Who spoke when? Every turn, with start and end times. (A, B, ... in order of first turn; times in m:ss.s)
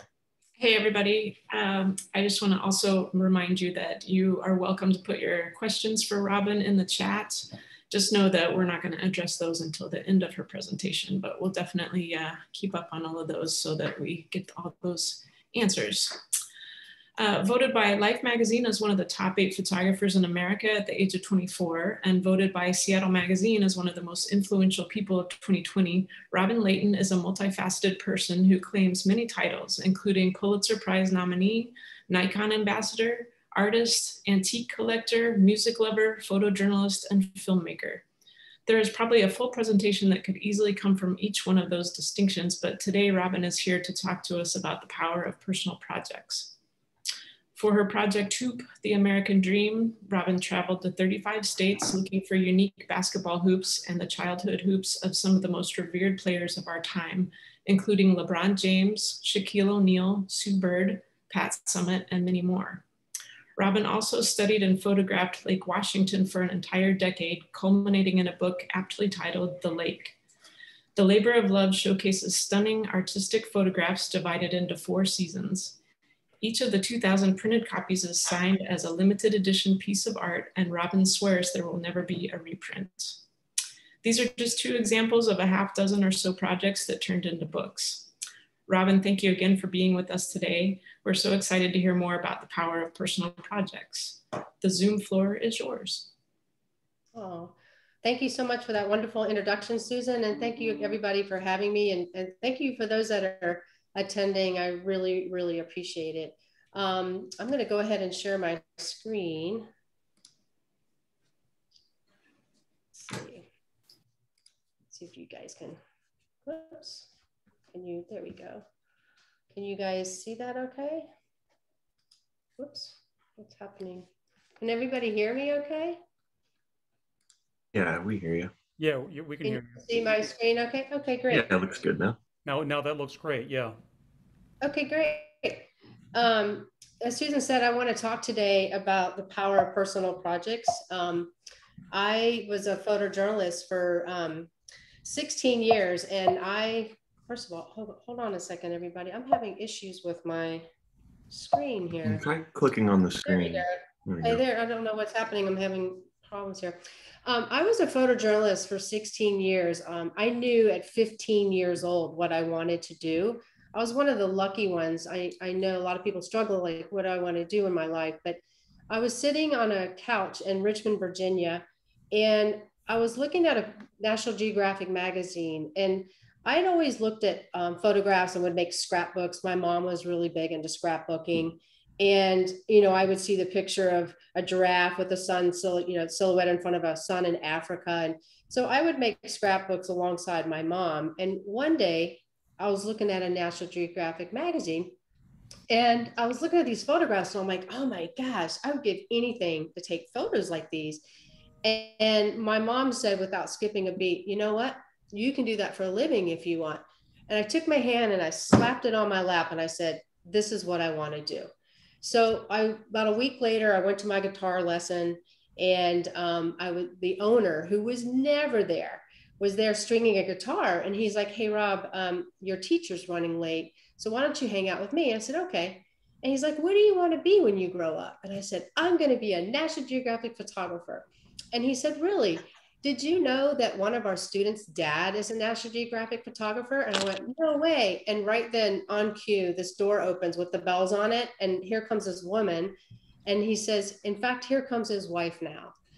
0:00.6-0:16.2 A
0:17.2-0:38.0 A
0:38.6-0:46.5 A
0:47.5-1:02.8 A
1:03.6-1:10.2 A
1:11.0-1:15.8 A
1:16.4-1:23.2 A
1:24.0-1:28.1 A
1:28.7-1:36.1 A
1:37.1-1:49.7 B
1:52.9-1:53.4 B
1:54.9-1:55.8 B
1:56.4-1:57.1 B
1:57.7-1:58.6 B
1:59.5-2:01.1 B
2:02.6-2:04.1 B
2:04.6-2:06.0 B
2:07.7-2:08.5 C
2:08.8-2:09.9 D
2:09.4-2:11.5 B
2:11.3-2:12.2 C
2:12.4-2:13.8 D
2:14.6-2:21.3 B
2:21.9-2:24.5 B
2:25.0-2:30.7 B
2:31.3-2:32.4 B
2:32.0-2:34.4 C
2:33.2-3:14.9 B
3:15.7-3:21.0 B
3:21.6-3:31.5 B
3:32.0-4:05.7 B